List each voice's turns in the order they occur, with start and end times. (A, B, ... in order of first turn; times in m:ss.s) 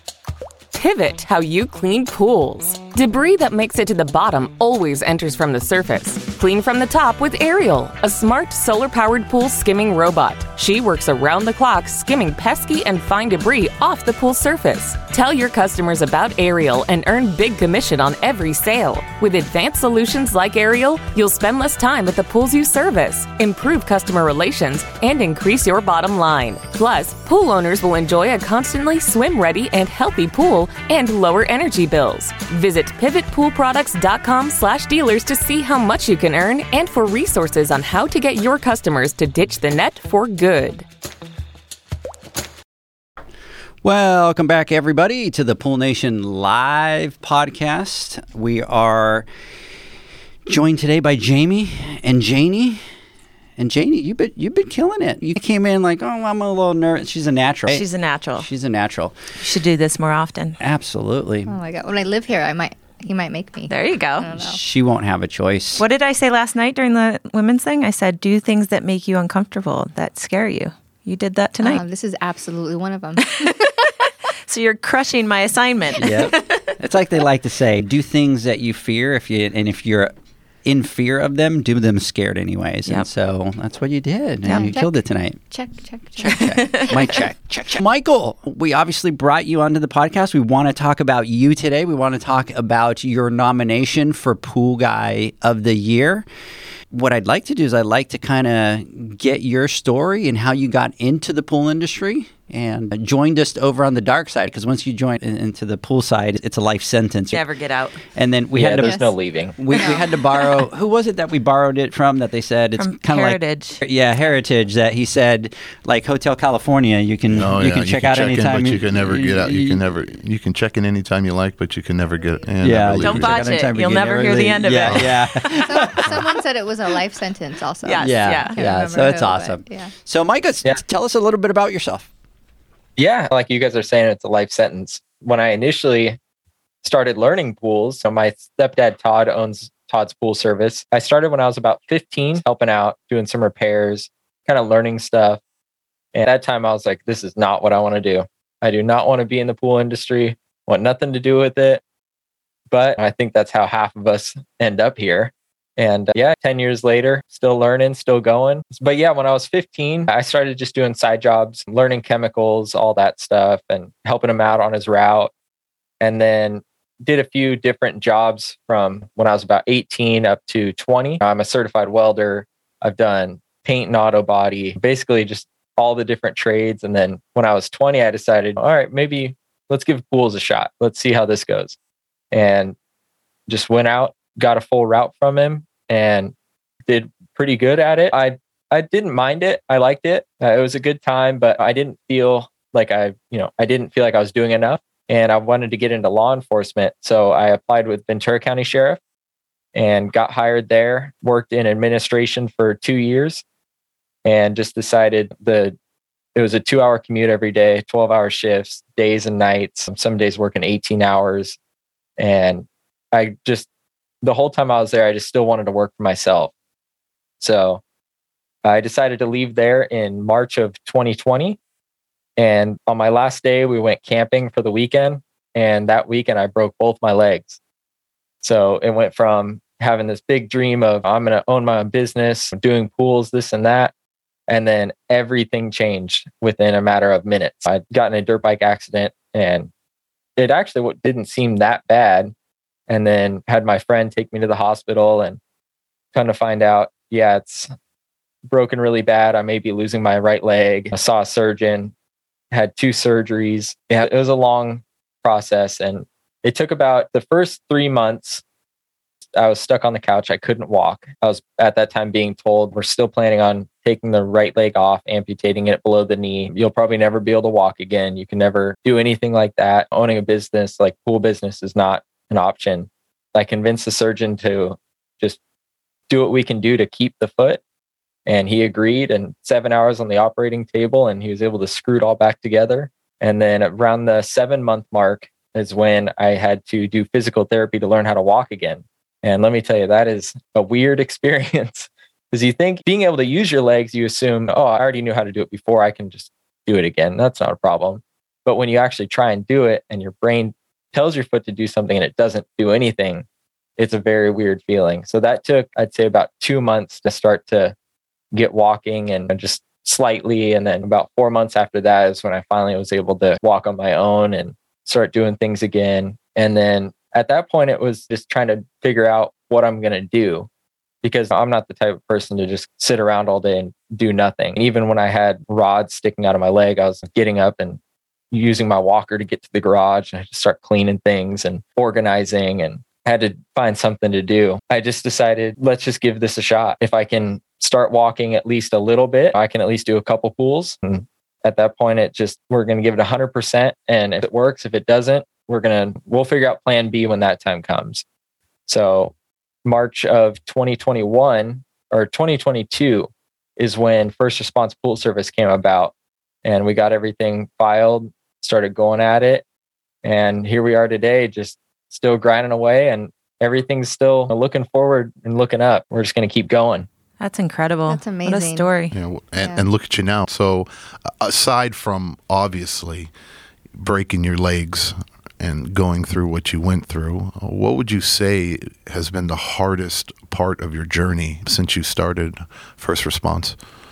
0:00.7-0:40.8 A
0:43.8-0:49.2 B
0:50.5-0:52.8 B
0:53.6-0:57.8 B
0:57.7-0:58.4 C
0:58.4-0:59.2 B
0:59.4-1:00.6 C
1:00.6-1:01.5 B
1:01.5-1:04.6 D
1:03.7-1:04.3 C
1:04.3-1:05.8 B
1:05.8-1:11.8 C
1:11.6-1:13.4 D
1:13.2-1:16.7 C
1:16.0-1:20.1 B
1:20.6-1:25.4 B
1:24.4-1:24.7 C
1:24.5-1:24.9 D
1:25.5-1:27.1 D
1:26.2-1:36.2 B
1:26.4-1:26.9 C
1:36.9-1:47.4 B
1:47.3-1:48.0 C
1:48.1-1:49.0 B
1:48.5-1:49.6 E
1:48.8-1:49.1 D
1:49.6-1:59.8 B
1:49.7-1:50.1 D
1:52.8-1:53.8 C
1:57.3-2:03.5 F
2:02.6-2:06.1 B
2:03.0-2:05.2 C
2:04.8-2:05.1 F
2:05.5-2:09.9 D
2:07.8-2:08.6 C
2:08.0-2:12.1 B
2:13.0-2:16.2 E
2:16.8-2:25.4 E
2:26.1-2:31.8 E
2:32.7-2:45.3 E
2:46.0-3:01.8 E
3:02.3-3:02.7 E
3:03.5-3:06.3 E
3:06.9-3:19.0 E
3:19.7-3:23.4 E
3:24.2-3:25.7 E
3:26.3-3:31.6 E
3:32.2-3:33.6 E
3:34.2-3:36.5 E
3:37.4-3:37.8 E
3:38.6-3:41.6 E
3:42.4-3:47.6 E
3:48.4-3:53.9 E
3:54.5-3:59.7 E
4:00.4-4:02.3 E
4:02.9-4:05.4 E
4:06.1-4:07.7 E
4:08.5-4:11.9 E
4:12.5-4:18.4 E
4:19.3-4:35.4 E
4:36.1-4:37.6 E
4:38.2-5:03.2 E
5:03.8-5:07.7 E
5:08.3-5:20.5 E
5:21.0-5:27.8 E
5:28.3-5:48.0 E
5:48.7-5:49.1 E
5:49.6-5:55.9 E
5:56.4-5:59.4 E
6:00.0-6:06.9 E
6:07.2-6:08.9 C
6:07.9-6:08.7 D
6:08.9-6:13.1 F
6:09.4-6:09.6 D
6:13.8-6:23.6 F